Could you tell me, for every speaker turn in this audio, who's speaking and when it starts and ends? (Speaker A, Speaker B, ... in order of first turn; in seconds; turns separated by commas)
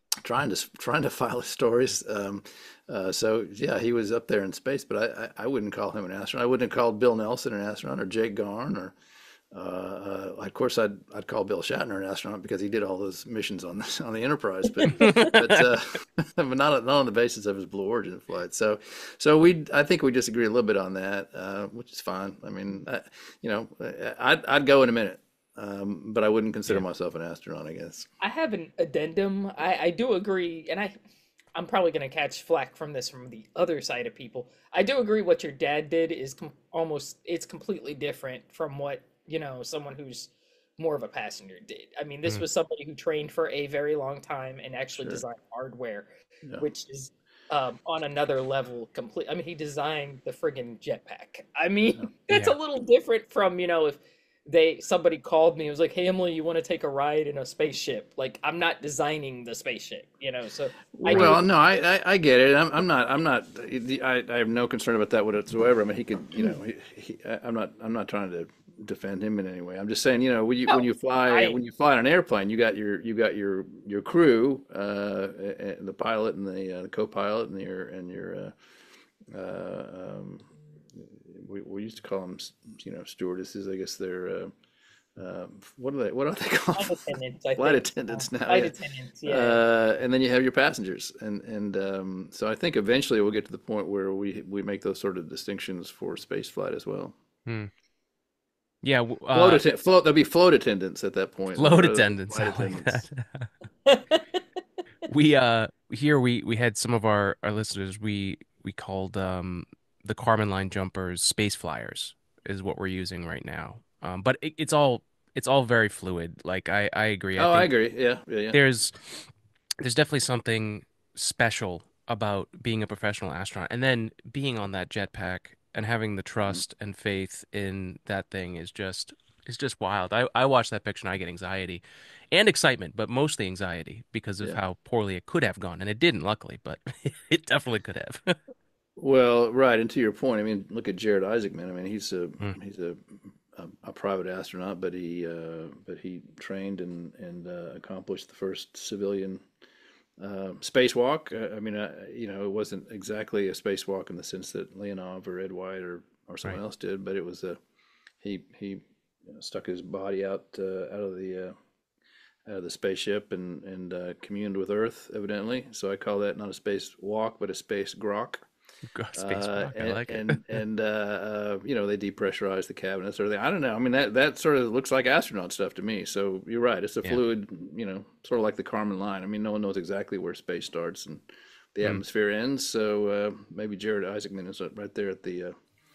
Speaker A: 0.2-8.9, Speaker A: 9.5-28.1, Speaker B: 14.8-15.3, Speaker C: 14.9-15.6, Speaker B: 28.2-30.9, Speaker B: 31.6-61.5, Speaker A: 45.0-45.2, Speaker C: 52.3-52.6, Speaker A: 61.0-78.5, Speaker C: 61.1-61.4, Speaker B: 70.7-71.6, Speaker A: 79.3-84.5, Speaker A: 85.2-88.8, Speaker B: 86.8-89.6, Speaker A: 89.3-97.2, Speaker C: 97.5-97.7, Speaker C: 98.8-99.6, Speaker A: 99.3-103.1, Speaker C: 101.5-103.5, Speaker B: 103.9-104.2, Speaker C: 105.1-117.7, Speaker A: 117.4-118.6, Speaker C: 118.5-118.9, Speaker C: 119.8-138.4, Speaker A: 139.0-149.4, Speaker A: 150.2-157.6, Speaker A: 158.2-161.5, Speaker A: 162.5-168.4, Speaker C: 168.9-170.4, Speaker A: 169.2-181.2, Speaker A: 181.8-185.6